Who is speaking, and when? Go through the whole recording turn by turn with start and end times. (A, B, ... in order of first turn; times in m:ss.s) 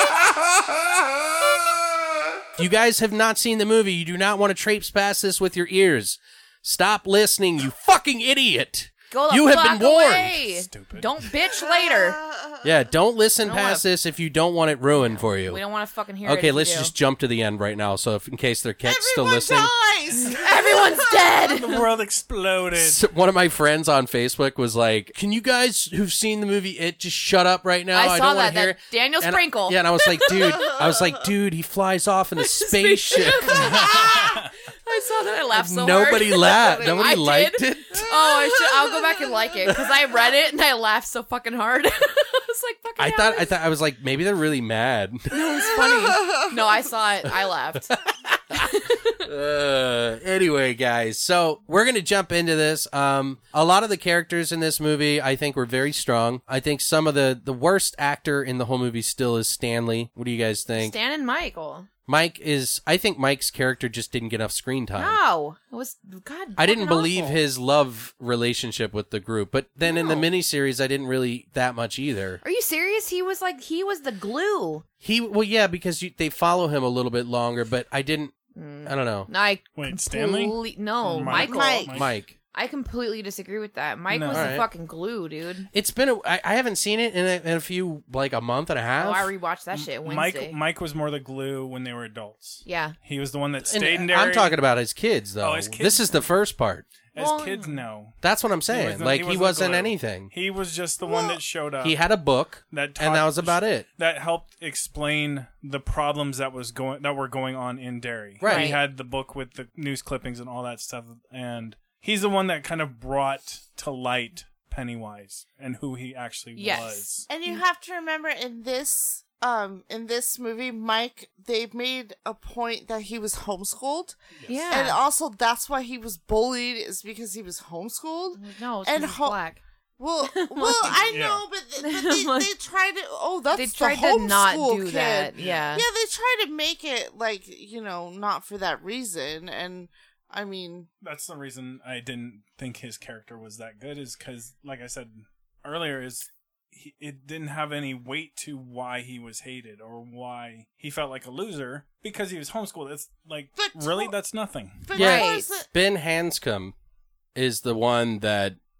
0:02.6-0:10.4 A
0:09.1-0:12.2 B
0:10.7-0:11.1 C
0:11.5-0:12.7 D
0:12.6-0:15.6 A
0:13.4-0:13.8 B
0:15.0-0:16.9 B
0:16.2-0:19.7 A
0:18.8-0:21.3 D
0:20.3-0:21.9 B
0:21.4-0:23.0 C
0:22.7-0:34.0 A
0:27.9-0:30.7 B
0:32.4-0:43.5 B
0:33.6-0:34.5 C
0:33.8-0:34.3 D
0:35.5-0:38.1 A
0:36.3-0:37.2 D
0:38.6-0:39.3 D
0:43.0-0:45.7 A
0:45.3-0:48.0 B
0:46.0-0:46.5 D
0:48.2-0:48.7 A
0:48.5-0:49.3 B
0:49.2-1:01.0 A
1:00.7-1:01.9 B
1:02.1-1:05.2 A
1:05.0-1:07.4 B
1:06.6-1:12.4 A
1:09.8-1:10.3 B
1:12.4-1:14.8 B
1:15.0-1:18.3 A
1:18.5-1:21.9 B
1:18.8-1:19.3 A
1:19.8-1:22.1 C
1:21.3-1:22.0 D
1:21.9-1:22.4 A
1:22.5-1:25.7 B
1:24.1-1:24.6 C
1:24.3-1:24.7 A
1:25.7-1:29.3 A
1:29.0-1:30.6 B
1:29.7-1:34.6 C
1:32.6-1:33.0 B
1:33.6-1:36.8 A
1:35.4-1:36.3 C
1:37.1-1:42.0 C
1:37.2-1:37.8 B
1:38.2-1:40.3 A
1:41.0-1:41.4 D
1:41.8-1:43.9 A
1:42.7-1:57.3 C
1:48.4-1:48.7 A
1:48.4-1:48.8 B
1:56.6-1:57.6 B
1:57.3-2:04.2 D
2:04.4-2:04.7 C
2:04.5-2:05.0 B
2:04.7-2:09.4 D
2:08.4-2:09.6 B
2:10.0-2:20.9 D
2:10.2-2:11.0 B
2:10.8-2:11.4 C
2:11.8-2:12.5 B
2:13.5-2:15.9 B
2:15.4-2:15.7 C
2:21.0-2:34.9 C
2:33.6-2:34.1 D
2:34.8-2:35.7 D
2:34.9-2:35.4 B
2:35.0-2:36.7 A
2:37.4-2:38.6 A